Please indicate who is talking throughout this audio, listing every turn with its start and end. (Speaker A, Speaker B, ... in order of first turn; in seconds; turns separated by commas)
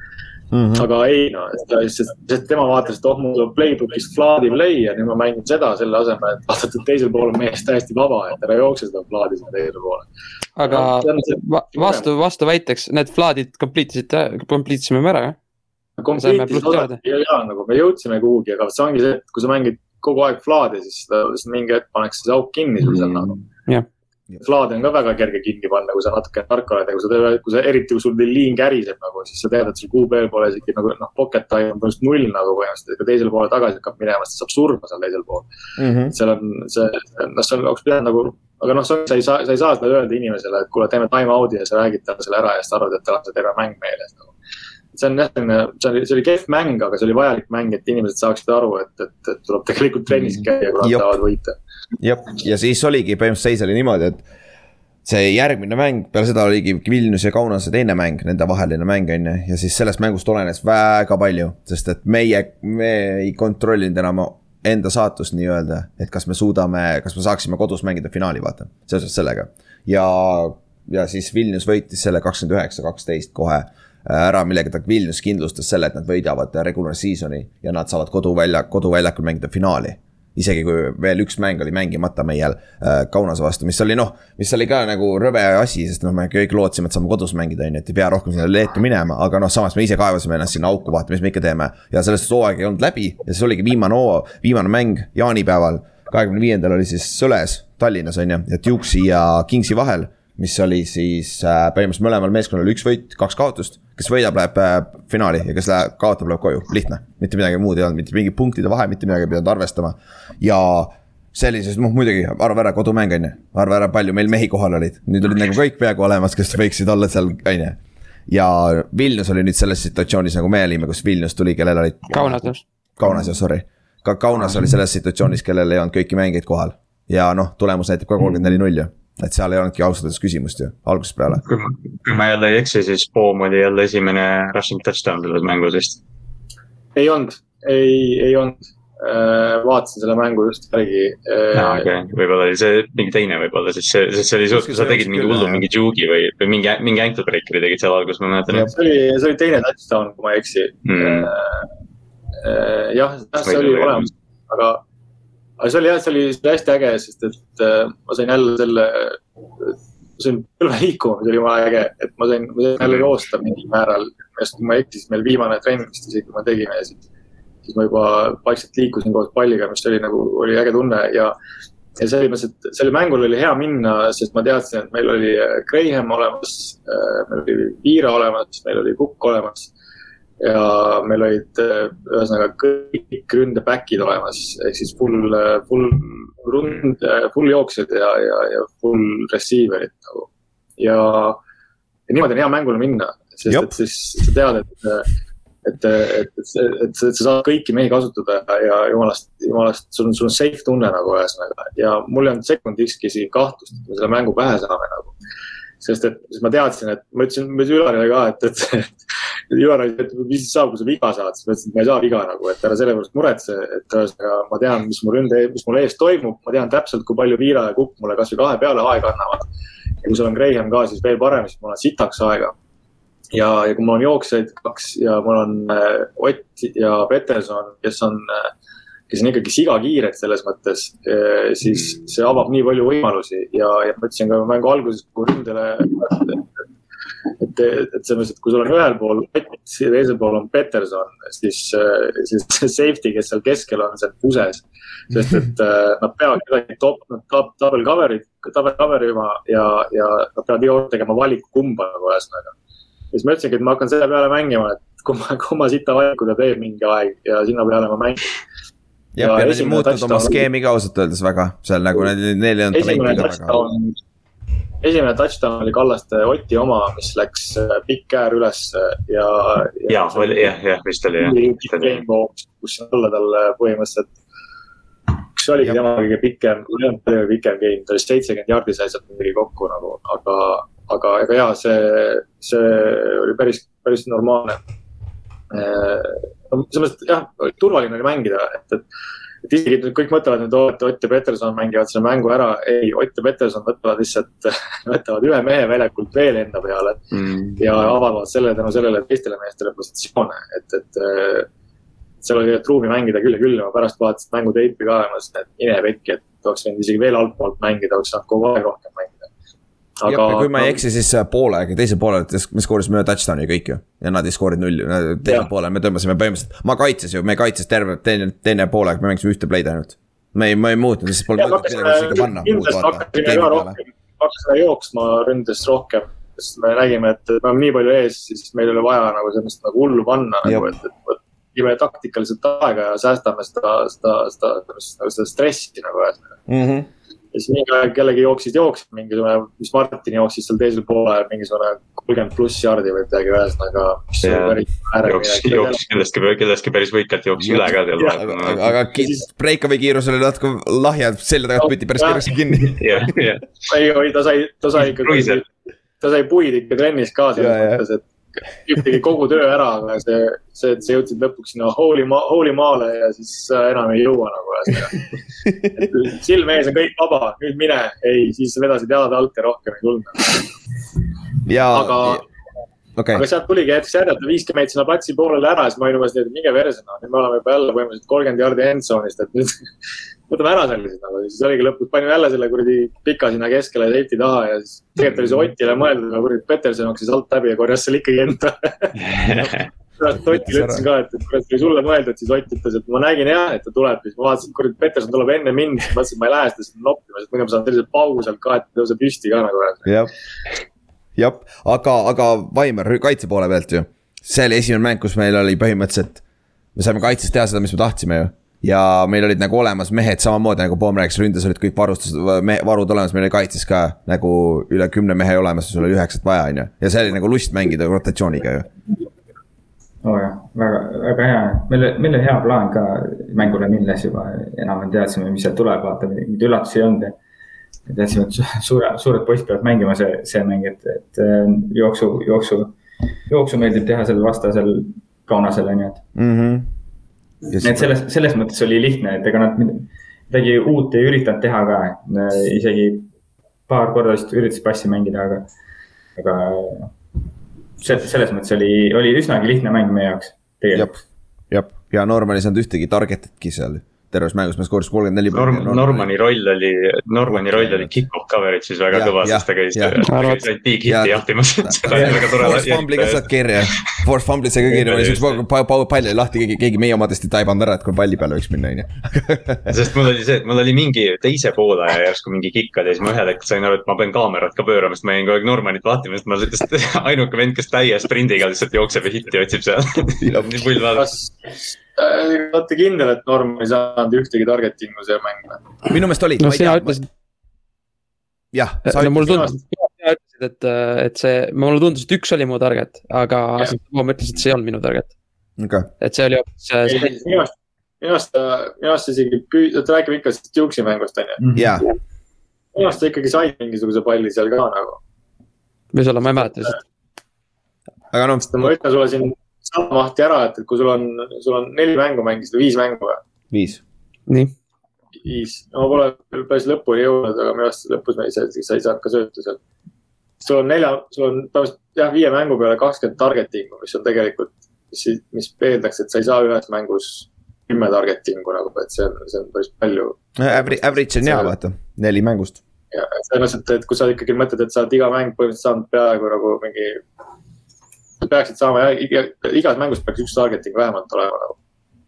Speaker A: 0.5-0.9, Speaker B: 0.7-10.1, Speaker C: 10.6-15.4, Speaker B: 10.6-12.1, Speaker B: 16.0-23.4, Speaker C: 16.2-17.0, Speaker D: 22.9-23.3, Speaker B: 24.4-35.5, Speaker A: 35.8-36.1, Speaker B: 36.1-44.3, Speaker B: 44.9-51.5, Speaker A: 50.8-51.1, Speaker A: 52.0-54.2, Speaker A: 55.0-131.4, Speaker C: 122.1-122.6, Speaker D: 131.4-136.0, Speaker B: 136.9-141.9, Speaker D: 141.6-148.7, Speaker A: 144.5-145.6, Speaker B: 148.7-151.7, Speaker D: 150.9-151.3, Speaker B: 152.4-154.8, Speaker D: 153.4-154.1, Speaker B: 155.6-167.0, Speaker B: 167.6-171.3, Speaker B: 172.0-179.7, Speaker B: 180.4-191.4, Speaker B: 192.1-195.1, Speaker B: 195.6-205.1, Speaker B: 205.8-208.9, Speaker B: 209.5-219.4, Speaker B: 220.0-222.6, Speaker B: 223.3-228.5, Speaker B: 229.1-236.5, Speaker B: 237.4-252.5, Speaker B: 253.1-258.3, Speaker A: 259.1-263.6, Speaker B: 259.2-260.4, Speaker B: 262.7-263.9, Speaker B: 264.8-270.6, Speaker D: 269.9-272.0, Speaker B: 271.2-274.1, Speaker B: 275.4-284.6, Speaker B: 285.5-288.8, Speaker B: 289.4-297.0, Speaker D: 297.1-297.6, Speaker B: 297.6-301.5, Speaker B: 302.2-309.3, Speaker B: 310.0-310.8, Speaker A: 310.1-323.8, Speaker B: 321.4-336.2, Speaker A: 330.4-330.7, Speaker A: 336.5-336.9, Speaker B: 337.3-345.8, Speaker D: 344.2-348.7, Speaker A: 347.4-347.7, Speaker A: 348.2-353.0, Speaker B: 348.9-349.3, Speaker B: 351.6-352.7, Speaker D: 352.8-353.5, Speaker B: 353.7-355.4, Speaker D: 354.8-355.4, Speaker B: 356.0-358.0, Speaker A: 357.4-357.8, Speaker B: 358.6-365.1, Speaker B: 365.8-370.5, Speaker A: 371.4-372.2, Speaker B: 371.7-372.2, Speaker A: 373.0-373.2, Speaker B: 373.1-379.6, Speaker B: 380.3-388.9, Speaker D: 389.0-389.6, Speaker A: 389.4-390.8, Speaker B: 390.0-399.9, Speaker A: 399.9-400.1, Speaker A: 401.2-406.2, Speaker A: 406.8-418.7, Speaker E: 420.0-427.2, Speaker E: 427.9-432.8, Speaker E: 433.3-436.1, Speaker A: 436.2-436.7, Speaker A: 437.5-437.9, Speaker E: 437.6-443.1, Speaker E: 443.7-445.5, Speaker E: 446.2-446.9, Speaker E: 447.8-450.9, Speaker A: 450.7-451.0, Speaker A: 451.5-456.1, Speaker D: 455.3-463.8, Speaker A: 457.3-458.0, Speaker A: 458.9-460.1, Speaker C: 460.1-460.4, Speaker A: 460.9-469.7, Speaker D: 464.6-465.4, Speaker D: 469.7-481.1, Speaker A: 480.2-480.7, Speaker B: 480.9-485.6, Speaker A: 485.9-487.0, Speaker C: 486.4-487.1, Speaker A: 488.5-489.5, Speaker C: 488.9-495.1, Speaker B: 489.3-489.6, Speaker A: 495.6-495.9, Speaker C: 496.0-497.1, Speaker B: 496.8-501.4, Speaker E: 501.4-501.8, Speaker A: 501.6-501.9, Speaker B: 502.7-505.0, Speaker C: 505.9-506.8, Speaker A: 508.1-508.7, Speaker B: 508.4-513.2, Speaker A: 513.5-513.8, Speaker B: 515.2-519.6, Speaker B: 520.4-531.5, Speaker A: 530.4-532.6, Speaker B: 532.9-537.0, Speaker B: 538.2-541.5